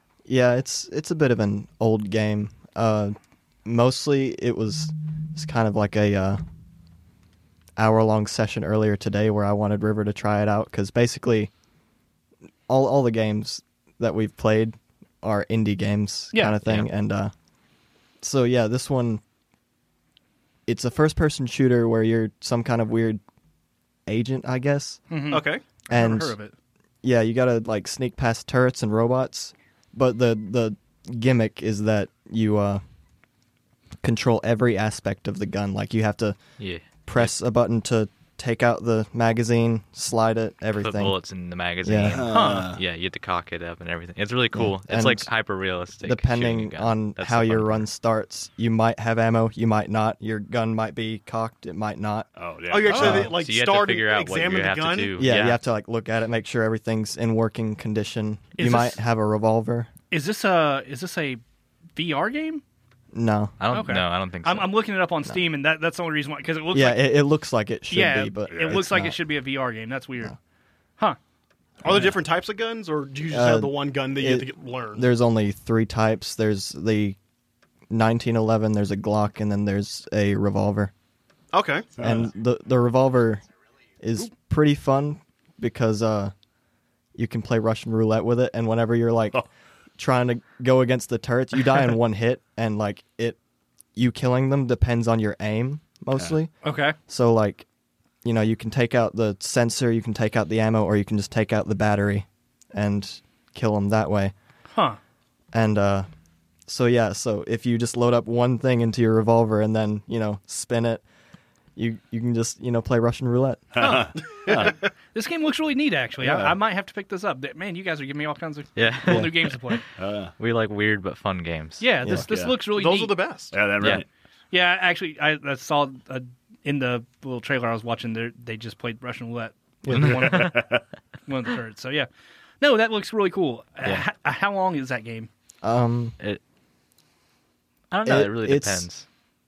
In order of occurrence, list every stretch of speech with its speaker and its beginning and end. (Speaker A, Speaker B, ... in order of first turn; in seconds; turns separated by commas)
Speaker A: 0.3-6.4, Speaker A: 7.8-11.5, Speaker A: 12.7-17.3, Speaker A: 18.2-19.2, Speaker A: 20.7-23.2, Speaker A: 24.1-25.0, Speaker B: 25.1-26.5, Speaker C: 25.3-25.6, Speaker A: 25.9-26.4, Speaker A: 27.0-32.8, Speaker A: 34.0-36.4, Speaker D: 36.6-37.3, Speaker A: 37.1-41.2, Speaker D: 40.8-47.9, Speaker A: 41.8-42.2, Speaker E: 42.1-42.8, Speaker B: 42.3-42.7, Speaker A: 44.5-45.3, Speaker A: 46.0-52.3, Speaker E: 52.4-53.3, Speaker C: 52.7-55.1, Speaker B: 52.9-53.2, Speaker D: 52.9-55.6, Speaker A: 53.0-53.3, Speaker A: 55.2-59.9, Speaker B: 58.6-59.0, Speaker B: 60.1-61.4, Speaker B: 62.0-62.6, Speaker A: 63.1-63.6, Speaker D: 63.6-64.8, Speaker B: 63.7-67.1, Speaker A: 66.7-69.2, Speaker B: 67.9-70.4, Speaker E: 68.5-68.8, Speaker C: 71.8-75.0, Speaker A: 71.8-72.1, Speaker A: 73.3-77.2, Speaker A: 77.9-80.9, Speaker C: 81.5-82.0, Speaker E: 82.0-82.3, Speaker A: 82.0-83.4, Speaker A: 84.0-86.3, Speaker A: 87.2-89.5, Speaker A: 90.0-93.4, Speaker A: 94.0-97.7, Speaker B: 96.6-97.0, Speaker A: 98.2-104.3, Speaker B: 104.7-105.0, Speaker A: 105.5-106.1, Speaker A: 106.7-111.0, Speaker A: 111.8-113.8, Speaker E: 113.7-114.8, Speaker B: 113.8-119.8, Speaker A: 116.2-116.5, Speaker D: 118.8-119.6, Speaker A: 119.1-119.3, Speaker E: 120.0-120.3, Speaker D: 120.4-121.9, Speaker B: 121.8-123.2, Speaker A: 122.0-122.3, Speaker E: 122.2-122.6, Speaker C: 122.7-123.5, Speaker E: 123.5-124.0, Speaker B: 124.5-130.7, Speaker A: 129.8-130.3, Speaker D: 129.9-130.5, Speaker E: 130.3-130.8, Speaker B: 131.3-132.1, Speaker B: 132.6-135.3, Speaker A: 135.6-136.2, Speaker D: 137.9-139.1, Speaker A: 138.1-138.9